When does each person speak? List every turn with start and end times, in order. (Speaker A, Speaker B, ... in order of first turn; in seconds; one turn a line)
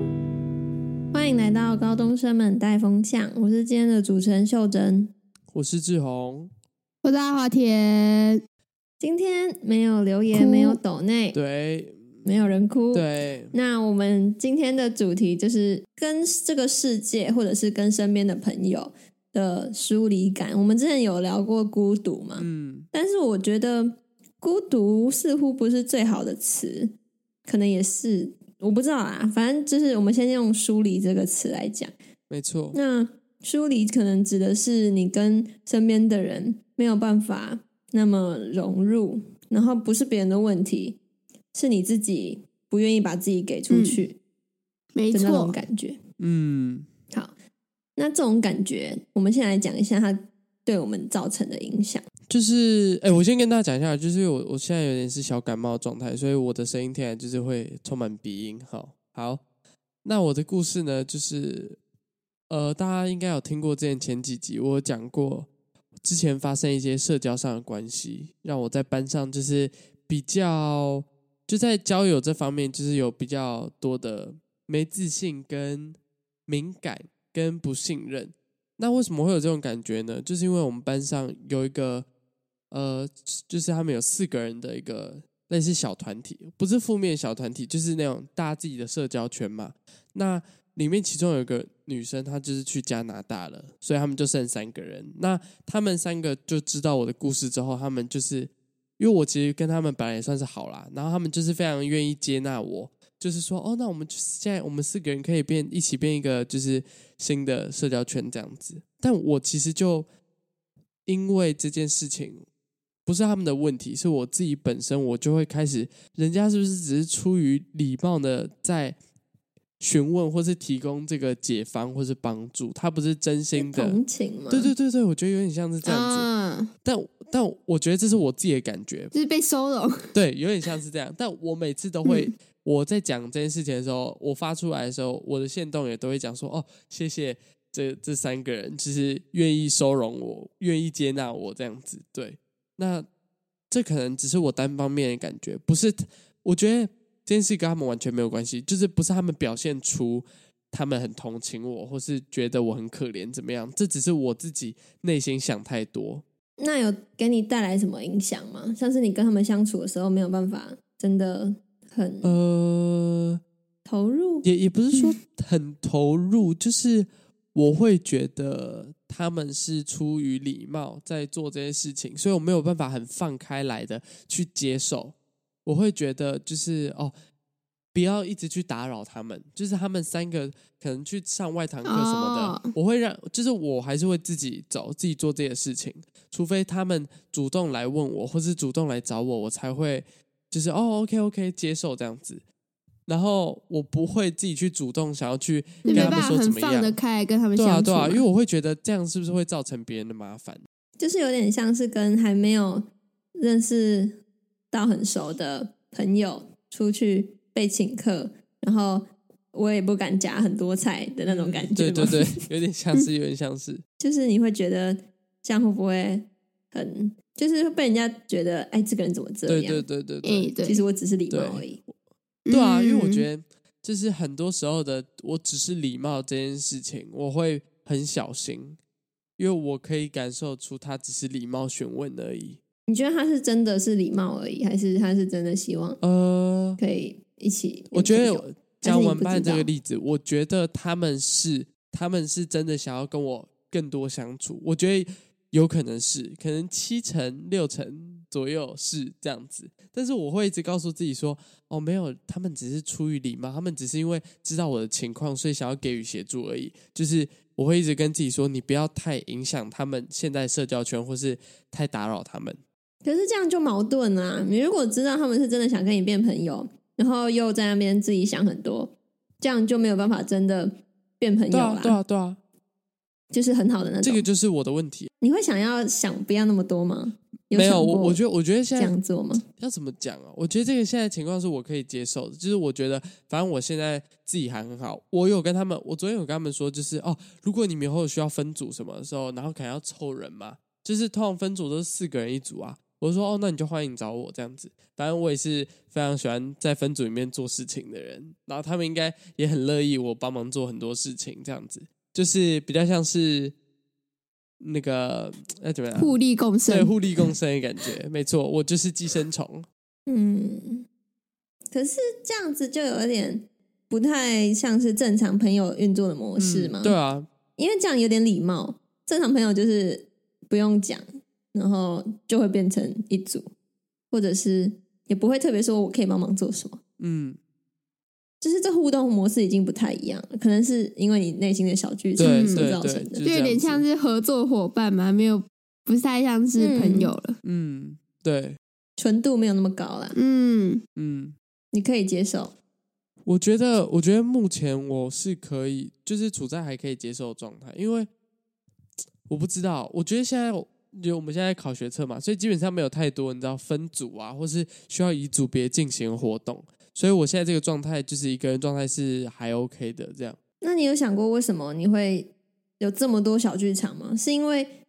Speaker A: 1.1-5.1
Speaker B: 5.5-6.5
Speaker C: 7.0-8.4
Speaker A: 9.0-11.4
Speaker C: 10.3-10.8
Speaker B: 11.3-12.2
Speaker A: 12.2-26.9
Speaker B: 12.9-13.5
Speaker B: 22.4-22.9
Speaker A: 27.4-31.9
Speaker B: 32.3-32.8
Speaker A: 32.7-41.0
Speaker A: 41.5-44.2
Speaker C: 43.7-44.0
Speaker C: 44.9-45.6
Speaker A: 45.1-46.0
Speaker B: 46.2-46.9
Speaker A: 48.0-52.0
Speaker B: 52.3-59.4
Speaker B: 60.0-61.8
Speaker B: 62.5-65.5
Speaker B: 66.0-82.1
Speaker B: 82.7-110.1
Speaker B: 111.0-112.4
Speaker B: 113.0-119.0
Speaker B: 119.8-124.0
Speaker A: 123.5-124.7
Speaker B: 124.5-126.3
Speaker C: 125.8-126.7
Speaker B: 126.8-129.1
Speaker C: 129.1-130.1
Speaker B: 130.1-143.1
Speaker C: 132.0-132.3
Speaker B: 143.7-156.2
Speaker A: 156.6-162.4
Speaker B: 162.2-163.4
Speaker A: 163.8-164.5
Speaker B: 164.4-177.1
Speaker B: 177.9-192.4
Speaker C: 181.8-182.7
Speaker B: 193.1-197.0
Speaker A: 195.8-196.2
Speaker C: 195.9-198.2
Speaker B: 197.6-200.6
Speaker A: 201.0-204.2
Speaker A: 204.7-212.4
Speaker B: 211.3-213.8
Speaker A: 214.0-219.8
Speaker B: 219.5-220.5
Speaker C: 220.2-220.8
Speaker A: 220.6-221.8
Speaker B: 221.3-221.8
Speaker C: 222.4-223.2
Speaker B: 222.5-228.8
Speaker B: 229.4-232.6
Speaker A: 232.9-236.0
Speaker B: 236.0-236.8
Speaker A: 236.8-239.7
Speaker B: 237.9-262.6
Speaker A: 263.0-272.0
Speaker B: 271.5-272.4
Speaker A: 273.3-274.2
Speaker B: 274.0-275.1
Speaker A: 275.2-278.2
Speaker B: 277.5-278.9
Speaker A: 278.8-279.4
Speaker B: 279.6-303.5
Speaker B: 304.6-306.1
Speaker C: 305.9-306.9
Speaker B: 306.7-309.6
Speaker A: 310.1-310.9
Speaker A: 311.7-316.9
Speaker B: 316.4-317.3
Speaker A: 317.6-323.5
Speaker A: 324.1-326.8
Speaker B: 327.0-327.4
Speaker A: 328.4-333.2
Speaker B: 332.2-333.8
Speaker C: 332.2-332.7
Speaker C: 333.2-337.4
Speaker A: 336.6-337.1
Speaker B: 337.4-338.6
Speaker A: 339.0-340.1
Speaker C: 340.1-340.8
Speaker B: 340.9-341.4
Speaker A: 341.7-342.5
Speaker B: 343.2-348.1
Speaker B: 349.3-360.4
Speaker A: 360.6-364.7